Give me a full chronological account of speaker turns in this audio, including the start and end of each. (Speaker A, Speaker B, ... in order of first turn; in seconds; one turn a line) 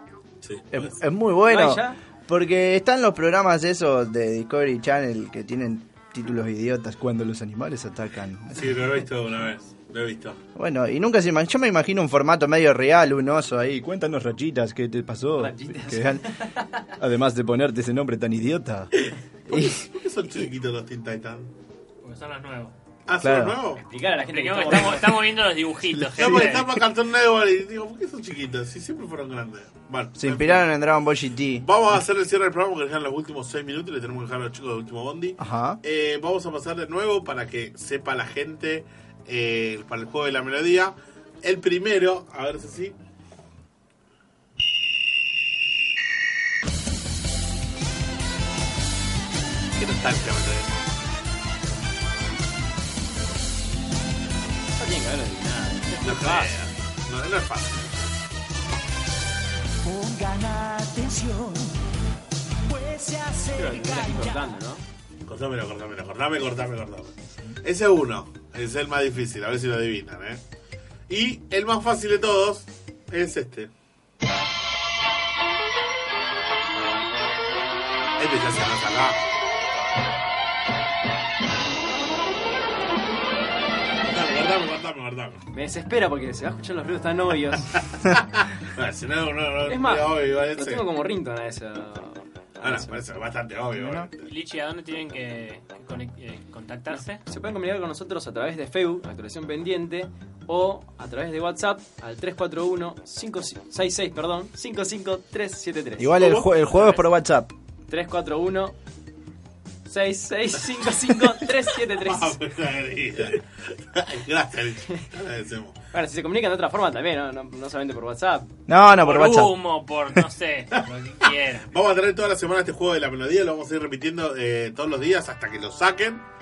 Speaker A: 0.4-1.0
Speaker B: 0.7-8.8
Speaker C: 1.4-2.0
Speaker A: 8.5-10.4
Speaker B: 10.5-16.3
Speaker C: 15.4-16.8
Speaker B: 17.0-18.9
Speaker A: 19.0-21.5
Speaker B: 19.5-19.8
Speaker D: 22.0-22.7
Speaker A: 23.1-23.8
Speaker B: 23.2-23.6
Speaker C: 23.7-25.2
Speaker D: 24.3-26.7
Speaker A: 24.6-25.0
Speaker A: 26.1-30.7
Speaker B: 30.2-31.6
Speaker A: 31.5-43.0
Speaker B: 35.4-35.8
Speaker A: 49.8-50.7
Speaker C: 54.8-56.5
Speaker A: 56.0-58.1
Speaker C: 63.5-64.8
Speaker A: 65.2-70.4
Speaker A: 71.1-73.7
Speaker A: 78.2-79.4
Speaker A: 84.0-85.4
Speaker C: 85.5-87.8
Speaker A: 88.0-90.8
Speaker C: 89.6-93.0
Speaker A: 92.6-94.3
Speaker B: 93.7-94.1
Speaker D: 94.2-97.2
Speaker C: 97.2-106.2
Speaker B: 106.0-107.5
Speaker A: 106.2-106.5
Speaker D: 106.7-107.0
Speaker C: 107.9-108.7
Speaker C: 109.8-112.4
Speaker A: 111.9-115.8
Speaker C: 115.9-118.5
Speaker B: 118.7-119.6
Speaker D: 118.9-121.7
Speaker A: 120.7-126.3